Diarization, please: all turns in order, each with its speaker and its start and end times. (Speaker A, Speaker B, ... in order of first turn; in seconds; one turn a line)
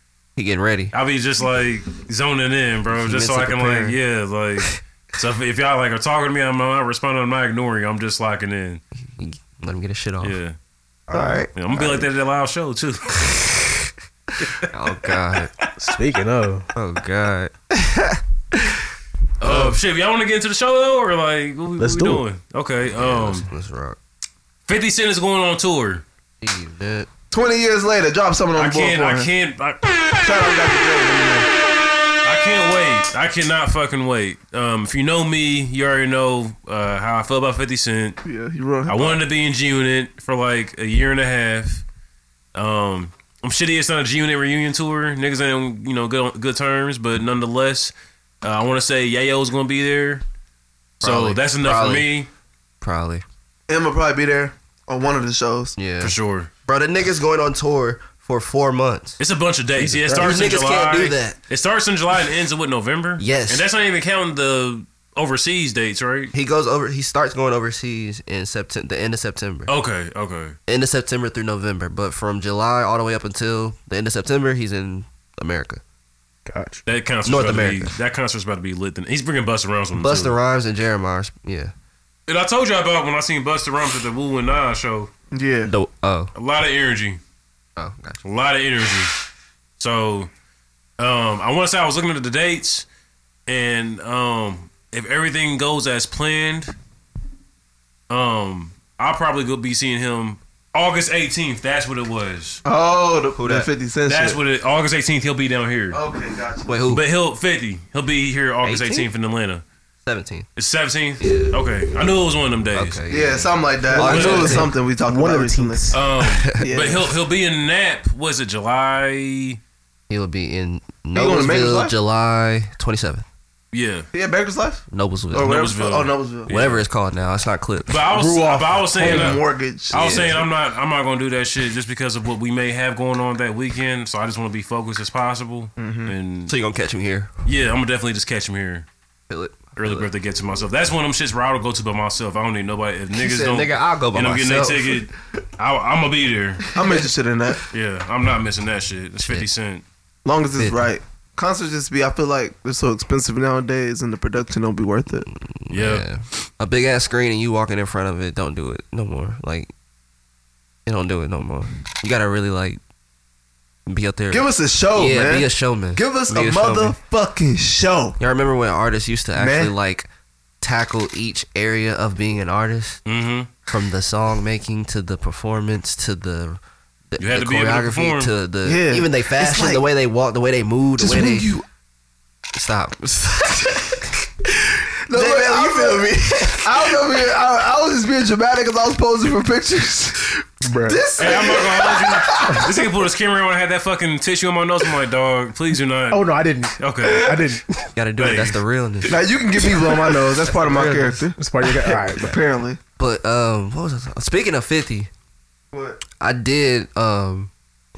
Speaker A: 0.4-0.9
Speaker B: 0.9-8.8
Speaker A: 2.9-4.0
Speaker A: 9.2-10.4
Speaker B: 10.2-10.6
Speaker C: 11.1-11.5
Speaker A: 11.1-12.1
Speaker B: 11.5-13.4
Speaker A: 13.2-13.7
Speaker A: 14.6-15.5
Speaker C: 15.8-16.7
Speaker A: 16.8-18.8
Speaker B: 19.4-23.5
Speaker D: 19.4-19.7
Speaker C: 21.8-22.2
Speaker A: 22.9-24.0
Speaker B: 24.7-26.0
Speaker A: 26.4-27.1
Speaker D: 27.3-29.3
Speaker B: 28.6-30.2
Speaker D: 30.2-31.5
Speaker B: 32.2-38.2
Speaker D: 38.2-39.2
Speaker B: 38.9-41.8
Speaker B: 42.5-50.2
Speaker A: 51.0-52.1
Speaker B: 51.0-52.3
Speaker A: 52.8-53.2
Speaker D: 53.7-55.8
Speaker A: 55.8-56.1
Speaker B: 56.0-56.5
Speaker A: 56.7-59.2
Speaker B: 59.2-66.3
Speaker C: 59.8-60.5
Speaker A: 60.1-61.4
Speaker A: 63.2-63.7
Speaker A: 66.3-69.7
Speaker B: 69.7-70.6
Speaker A: 70.7-75.8
Speaker C: 76.5-76.8
Speaker B: 76.9-80.3
Speaker A: 77.2-78.0
Speaker A: 80.0-81.7
Speaker B: 82.3-85.1
Speaker D: 85.3-85.7
Speaker A: 85.7-86.3
Speaker B: 86.3-87.2
Speaker A: 87.8-88.2
Speaker B: 88.2-89.2
Speaker B: 89.8-90.3
Speaker B: 91.0-92.9
Speaker B: 93.5-96.7
Speaker B: 98.1-102.6
Speaker D: 102.7-104.4
Speaker A: 103.4-103.7
Speaker B: 104.1-106.0
Speaker D: 105.9-106.7
Speaker A: 106.7-107.0
Speaker B: 106.9-109.6
Speaker A: 108.6-109.1
Speaker A: 110.1-110.5
Speaker B: 110.6-113.0
Speaker A: 111.2-111.6
Speaker A: 112.7-114.7
Speaker D: 113.1-115.9
Speaker C: 113.9-116.0
Speaker B: 114.0-114.7
Speaker B: 115.9-119.6
Speaker D: 116.6-117.1
Speaker A: 120.1-123.2
Speaker D: 121.1-121.9
Speaker B: 123.7-124.1
Speaker D: 124.1-126.5
Speaker A: 124.9-125.6
Speaker B: 125.4-126.8
Speaker A: 126.5-128.0
Speaker B: 127.9-136.5
Speaker D: 128.1-130.5
Speaker A: 129.0-129.4
Speaker A: 129.9-130.4
Speaker D: 135.8-136.1
Speaker A: 136.5-137.3
Speaker B: 137.4-138.9
Speaker A: 139.3-140.1
Speaker B: 139.8-146.7
Speaker A: 143.2-145.0
Speaker D: 146.7-147.6
Speaker B: 147.7-149.8
Speaker A: 149.2-149.5
Speaker D: 150.2-155.3
Speaker A: 150.6-150.9
Speaker A: 155.3-159.7
Speaker B: 155.7-156.1
Speaker A: 160.9-162.8
Speaker A: 163.9-167.0
Speaker D: 164.3-168.2
Speaker A: 168.2-170.1
Speaker D: 169.4-169.7
Speaker A: 170.6-173.0
Speaker B: 173.1-173.5
Speaker A: 173.7-176.6
Speaker A: 177.1-181.5
Speaker B: 177.2-178.3
Speaker D: 178.6-179.8
Speaker D: 181.0-181.7
Speaker A: 182.5-184.0
Speaker D: 185.1-192.8
Speaker A: 185.1-187.0
Speaker C: 190.6-191.0
Speaker B: 191.2-197.5
Speaker C: 196.1-197.8
Speaker A: 197.9-199.2
Speaker B: 198.2-198.6
Speaker D: 199.1-202.8
Speaker A: 200.4-201.2
Speaker C: 201.4-202.4
Speaker A: 203.0-205.1
Speaker D: 205.7-206.0
Speaker A: 206.2-207.5